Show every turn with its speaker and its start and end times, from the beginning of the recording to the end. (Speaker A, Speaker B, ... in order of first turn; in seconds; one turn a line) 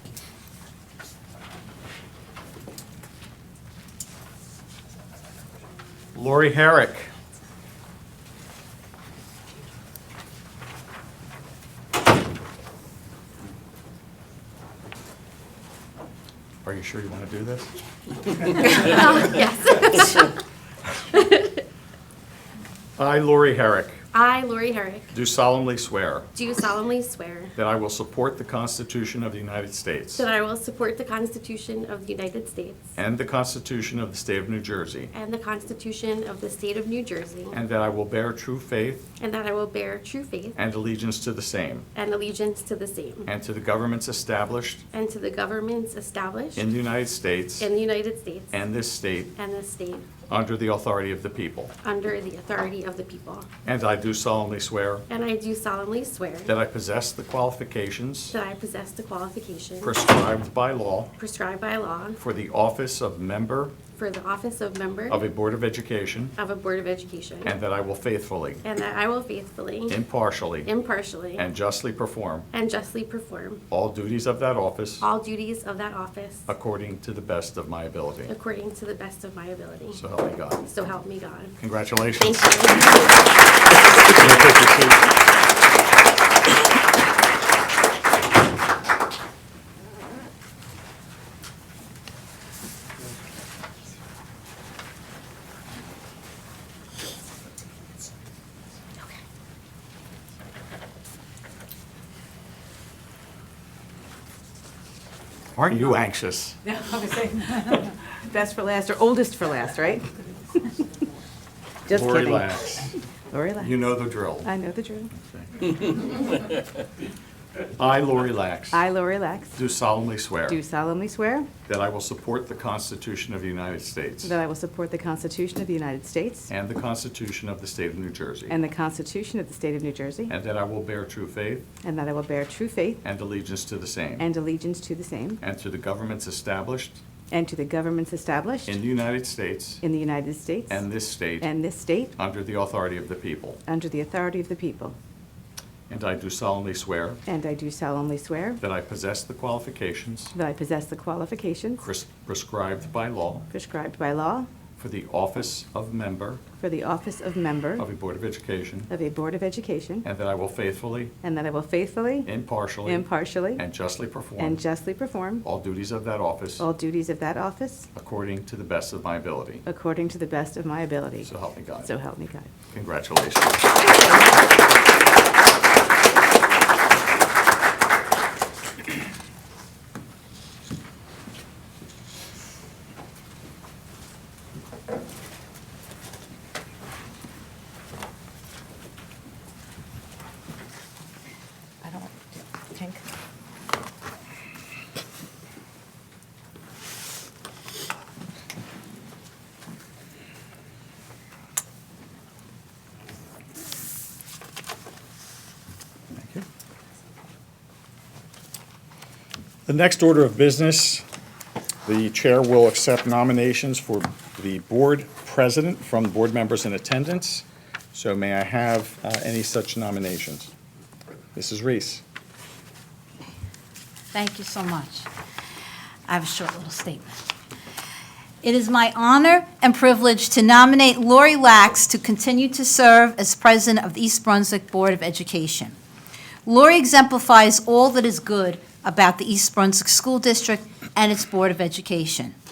Speaker A: 6.1-7.1
Speaker A: 16.6-17.7
Speaker B: 18.6-20.4
Speaker B: 21.1-21.6
Speaker A: 23.0-24.0
Speaker B: 24.1-25.1
Speaker A: 25.1-26.3
Speaker B: 26.3-27.5
Speaker A: 27.6-30.3
Speaker B: 30.1-32.9
Speaker A: 33.0-35.1
Speaker B: 35.1-37.6
Speaker A: 37.5-39.0
Speaker B: 39.2-40.6
Speaker A: 40.5-41.9
Speaker B: 41.9-43.3
Speaker A: 43.2-44.8
Speaker B: 44.9-46.7
Speaker A: 46.5-47.7
Speaker B: 47.6-48.6
Speaker A: 48.5-49.3
Speaker B: 49.4-50.0
Speaker A: 50.3-51.7
Speaker B: 51.8-53.5
Speaker A: 53.6-55.0
Speaker B: 55.1-56.5
Speaker A: 56.5-58.4
Speaker B: 58.3-60.0
Speaker A: 59.8-61.1
Speaker B: 61.2-62.2
Speaker A: 62.2-63.7
Speaker B: 64.0-65.2
Speaker A: 65.1-66.3
Speaker B: 66.4-67.5
Speaker A: 67.4-68.6
Speaker B: 68.6-70.0
Speaker A: 69.9-70.7
Speaker B: 70.7-71.4
Speaker A: 71.3-72.5
Speaker B: 72.5-73.6
Speaker A: 73.7-75.0
Speaker B: 75.0-76.5
Speaker A: 76.5-78.3
Speaker B: 78.3-80.0
Speaker A: 79.9-80.6
Speaker B: 80.6-81.6
Speaker A: 81.6-82.5
Speaker B: 82.2-83.1
Speaker A: 84.1-84.9
Speaker A: 105.5-106.6
Speaker C: 106.7-110.8
Speaker C: 111.9-112.5
Speaker A: 111.9-112.9
Speaker C: 113.3-113.8
Speaker A: 113.6-114.5
Speaker C: 114.4-115.1
Speaker A: 115.2-115.7
Speaker A: 117.8-118.8
Speaker C: 118.7-119.6
Speaker A: 119.5-120.6
Speaker C: 120.5-121.5
Speaker A: 121.7-124.4
Speaker C: 124.2-126.5
Speaker A: 126.5-128.6
Speaker C: 128.5-130.3
Speaker A: 130.3-131.7
Speaker C: 131.8-133.0
Speaker A: 133.0-134.3
Speaker C: 134.2-135.4
Speaker A: 135.4-137.0
Speaker C: 137.3-138.8
Speaker A: 138.7-139.8
Speaker C: 139.8-140.9
Speaker A: 140.7-141.5
Speaker C: 141.4-142.1
Speaker A: 142.2-143.6
Speaker C: 143.7-145.0
Speaker A: 145.9-147.2
Speaker C: 147.2-148.6
Speaker A: 148.6-150.3
Speaker C: 150.3-151.8
Speaker A: 151.8-153.5
Speaker C: 153.5-154.5
Speaker A: 154.8-156.4
Speaker C: 156.6-157.9
Speaker A: 157.8-158.9
Speaker C: 158.9-160.1
Speaker A: 160.0-161.1
Speaker C: 161.2-162.3
Speaker A: 162.2-164.6
Speaker C: 162.8-163.6
Speaker C: 164.4-165.4
Speaker A: 165.4-166.7
Speaker C: 166.6-167.9
Speaker A: 167.9-169.7
Speaker C: 169.7-171.3
Speaker A: 171.2-171.9
Speaker C: 171.8-172.5
Speaker A: 172.7-173.7
Speaker C: 173.8-174.2
Speaker C: 191.8-193.0
Speaker A: 206.2-206.4
Speaker A: 209.7-211.0
Speaker A: 211.8-220.5
Speaker A: 221.3-222.0
Speaker D: 224.1-225.1
Speaker D: 226.1-227.1
Speaker D: 228.4-235.7
Speaker D: 236.4-242.3